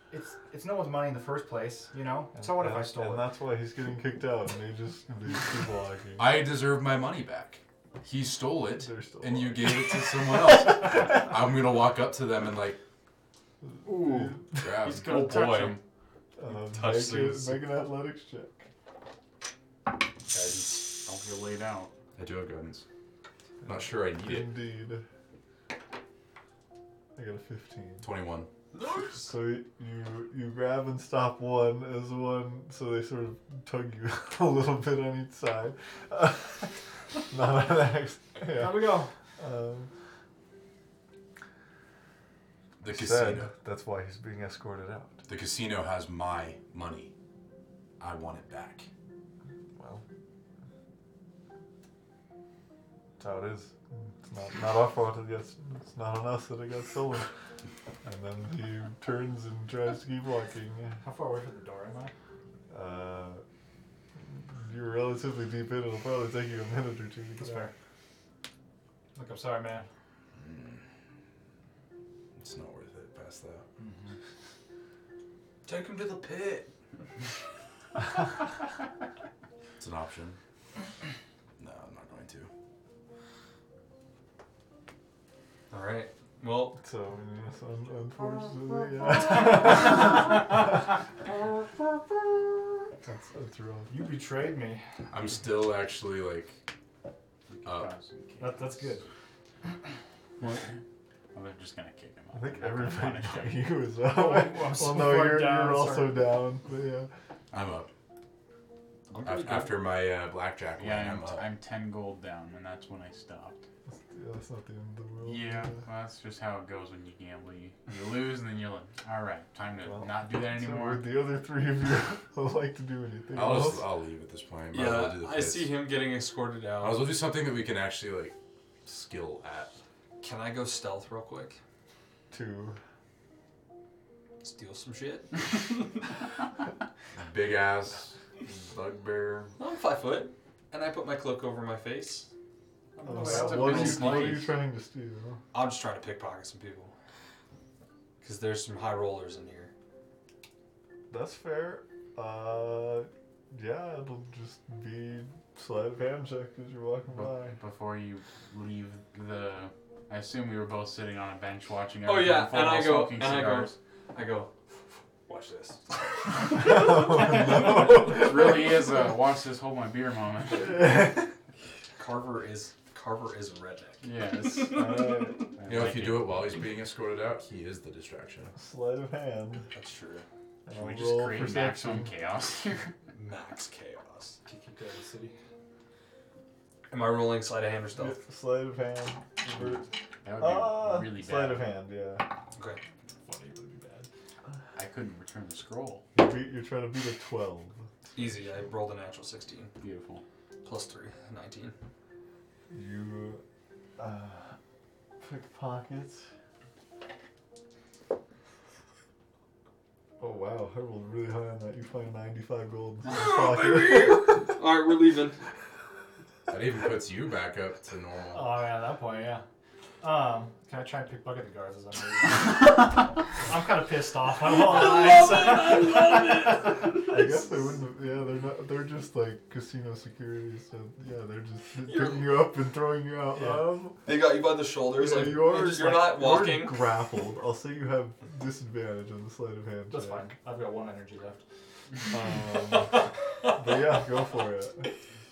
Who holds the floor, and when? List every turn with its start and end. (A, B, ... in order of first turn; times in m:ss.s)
0:00.1-0:03.2 A
0:02.4-0:06.4 B
0:06.2-0:12.8 C
0:08.8-0:10.0 B
0:13.6-0:14.7 B
0:13.8-0:14.3 D
0:14.6-0:15.3 C
0:14.8-0:15.8 D
0:15.0-0:15.8 E
0:16.4-0:18.7 B
0:16.5-0:17.6 D
0:20.3-0:21.0 D
0:21.0-0:21.9 E
0:22.1-0:22.8 C
0:23.6-0:25.0 B
0:23.6-0:24.6 C
0:27.1-0:28.1 B
0:28.0-0:28.5 C
0:28.7-0:29.3 D
0:29.1-0:39.9 B
0:38.4-0:39.1 A
0:42.8-0:43.5 C
0:42.9-0:45.2 B
0:45.3-0:47.1 C
0:48.0-0:48.9 C
0:49.8-0:50.0 B
0:53.2-0:57.3 B
0:58.0-1:01.0 B
1:01.0-1:02.1 A
1:02.7-1:03.4 B
1:04.2-1:07.7 B
1:07.4-1:07.7 A
1:09.1-1:09.9 A
1:10.4-1:10.8 C
1:12.4-1:13.6 C
1:13.8-1:14.2 A
1:15.6-1:16.7 D
1:19.8-1:20.4 C
1:21.6-1:22.5 C
1:25.7-1:26.8 D
1:26.8-1:30.1 B
1:33.0-1:33.9 B
1:33.9-1:34.8 A
1:35.1-1:36.6 C
1:37.6-1:39.0 E
1:37.6-1:37.9 C
1:38.4-1:39.0 A
1:40.4-1:40.8 E
1:41.3-1:43.7 E
1:42.3-1:47.1 B
1:44.0-1:46.3 A
1:47.5-1:47.9 C
1:49.1-1:49.9 D
1:49.2-1:51.5 C
1:50.8-1:53.6 E
1:53.9-1:55.8 B
1:55.2-2:01.0 E
1:59.8-2:03.9 B
2:03.3-2:05.8 C
2:04.7-2:07.1 D
2:06.8-2:09.7 C
2:10.2-2:11.6 D
2:12.3-2:12.8 B
2:14.4-2:16.0 D
2:17.2-2:19.5 C
2:19.6-2:22.3 D
2:23.0-2:23.6 A
2:23.0-2:25.4 B
2:23.1-2:24.5 E
2:23.2-2:24.5 D
2:25.5-2:26.9 D
2:28.2-2:29.7 D
2:31.1-2:37.6 B
2:37.1-2:43.7 E
2:42.0-2:44.5 D
2:45.2-2:47.8 D
2:46.5-2:48.9 B
2:47.2-2:50.8 E
2:50.5-2:51.3 B
2:52.0-2:55.3 D
2:54.0-2:55.0 E
2:54.7-2:55.4 B
2:55.6-2:56.5 E
2:55.7-2:58.5 C
2:58.5-2:59.7 B
2:59.7-3:00.2 D
3:00.7-3:02.1 B
3:00.7-3:02.9 E
3:03.1-3:04.4 D
3:04.4-3:05.4 A
3:06.9-3:08.2 D
3:08.0-3:12.3 B
3:10.2-3:11.7 E
3:12.5-3:12.8 D
3:13.2-3:14.1 A
3:14.7-3:16.0 E
3:16.1-3:17.8 B
3:18.1-3:19.7 D
3:19.8-3:20.2 E
3:20.6-3:21.7 D
3:22.7-3:23.4 B
3:24.0-3:24.5 B
3:25.2-3:26.3 B
3:30.2-3:34.4 B
3:33.1-3:35.4 D
3:36.5-3:38.5 C
3:38.3-3:39.4 A
3:40.0-3:46.9 A
3:44.4-3:47.4 D
3:46.9-3:54.1 B
3:51.8-3:52.5 D
3:53.3-3:53.8 A
3:54.0-3:57.0 D
3:54.8-4:00.3 B
3:59.9-4:01.4 A
4:02.1-4:04.9 B